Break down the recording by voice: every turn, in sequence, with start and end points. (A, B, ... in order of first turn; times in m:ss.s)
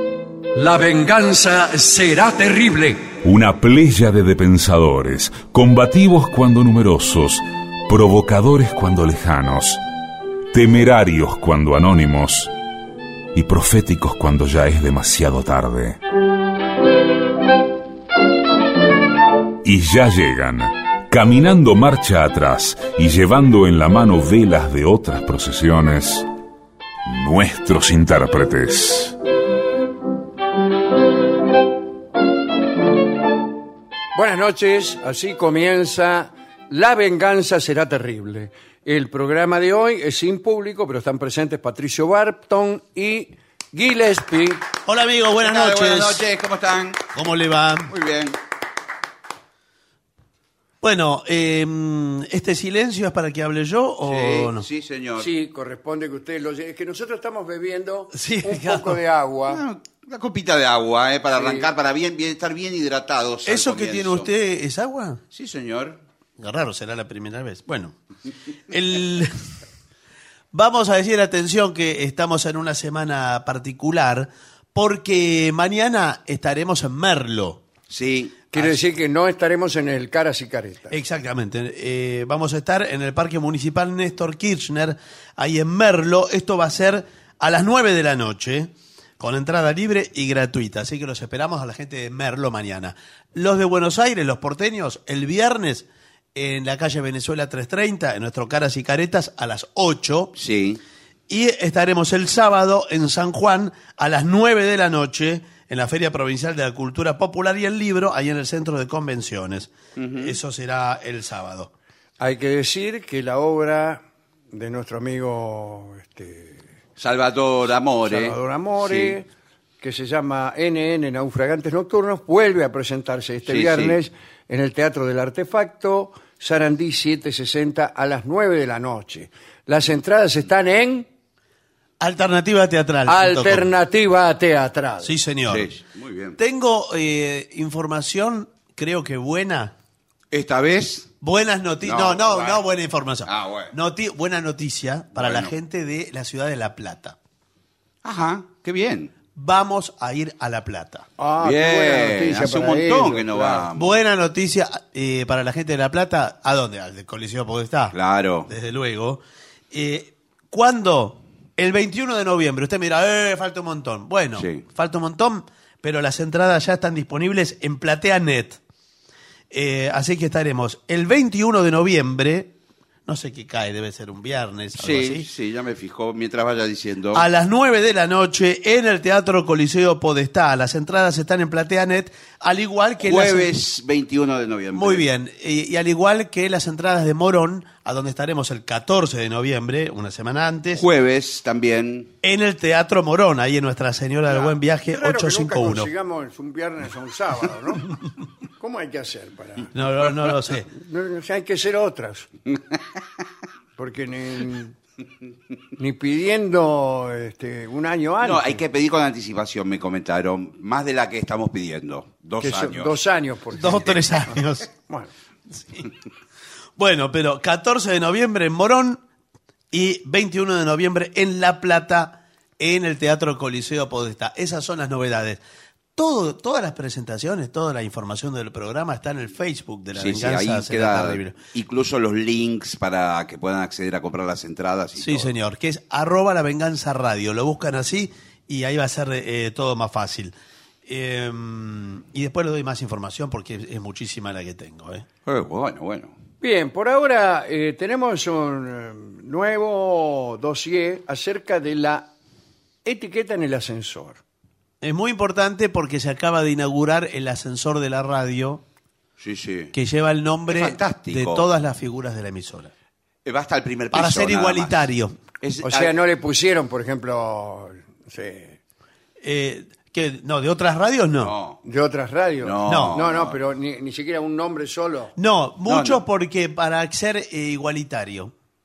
0:00.6-0:03.1 A
0:03.2-0:09.8 B
0:10.5-0:12.5 B
0:13.3-0:16.0 B
0:19.6-0:26.2 B
0:27.0-0:29.2 B
0:34.1-0:44.6 C
0:44.8-0:46.2 D
0:45.4-0:47.1 E
0:47.1-0:47.9 D
0:47.9-0:48.4 E
0:50.8-0:54.6 D
0:54.0-0:55.3 E
0:55.2-0:59.6 C
0:58.1-0:59.0 D
0:59.5-1:04.3 E
1:01.4-1:01.7 C
1:03.4-1:05.2 D
1:05.3-1:06.0 E
1:06.4-1:07.9 D
1:08.7-1:09.4 D
1:10.5-1:17.6 D
1:17.9-1:18.4 E
1:18.5-1:20.9 C
1:20.9-1:40.3 D
1:40.3-1:40.8 E
1:41.3-1:51.7 D
1:50.0-1:50.4 E
1:52.2-1:56.6 C
1:57.0-1:59.2 E
1:58.0-1:59.3 C
1:59.8-2:11.1 C
2:03.5-2:04.0 E
2:12.0-2:13.7 D
2:13.1-2:15.1 C
2:15.0-2:15.7 D
2:15.5-2:16.4 E
2:16.4-2:19.7 D
2:20.3-2:21.1 E
2:21.2-2:27.2 D
2:21.8-2:22.6 E
2:23.2-2:23.7 E
2:25.1-2:25.5 E
2:28.0-2:29.1 E
2:29.3-2:31.0 D
2:31.2-2:33.7 C
2:31.4-2:34.0 E
2:33.8-2:39.2 D
2:37.9-2:38.5 E
2:39.7-2:48.6 D
2:49.5-2:52.5 D
2:53.1-2:55.2 D
2:54.8-2:57.2 E
2:57.1-3:03.5 D
3:03.0-3:05.0 E
3:04.7-3:10.8 D
3:10.7-3:12.1 E
3:12.2-3:15.9 D
3:14.3-3:18.0 C
3:18.6-3:19.7 C
3:19.7-3:20.7 D
3:20.7-3:22.3 C
3:23.8-3:24.7 C
3:25.8-3:28.6 C
3:28.2-3:33.0 E
3:32.4-3:34.2 C
3:33.5-3:34.7 D
3:35.5-3:35.9 D
3:36.8-3:39.0 D
3:39.7-3:45.4 D
3:46.0-3:51.3 D
3:49.9-3:55.3 E
3:55.0-4:00.3 D
4:00.9-4:05.0 D
4:05.2-4:06.1 E
4:06.4-4:12.1 C
4:12.8-4:14.2 C
4:14.8-4:18.6 D
4:19.2-4:19.7 E
4:19.7-4:22.7 D
4:20.5-4:21.5 E
4:23.2-4:24.9 E
4:23.9-4:25.2 D
4:25.4-4:25.9 E
4:25.6-4:28.6 C
4:29.2-4:31.3 D
4:31.2-4:31.6 E
4:31.6-4:35.1 C
4:32.4-4:33.4 E
4:32.7-4:33.0 D
4:35.2-4:38.3 D
4:35.6-4:36.0 E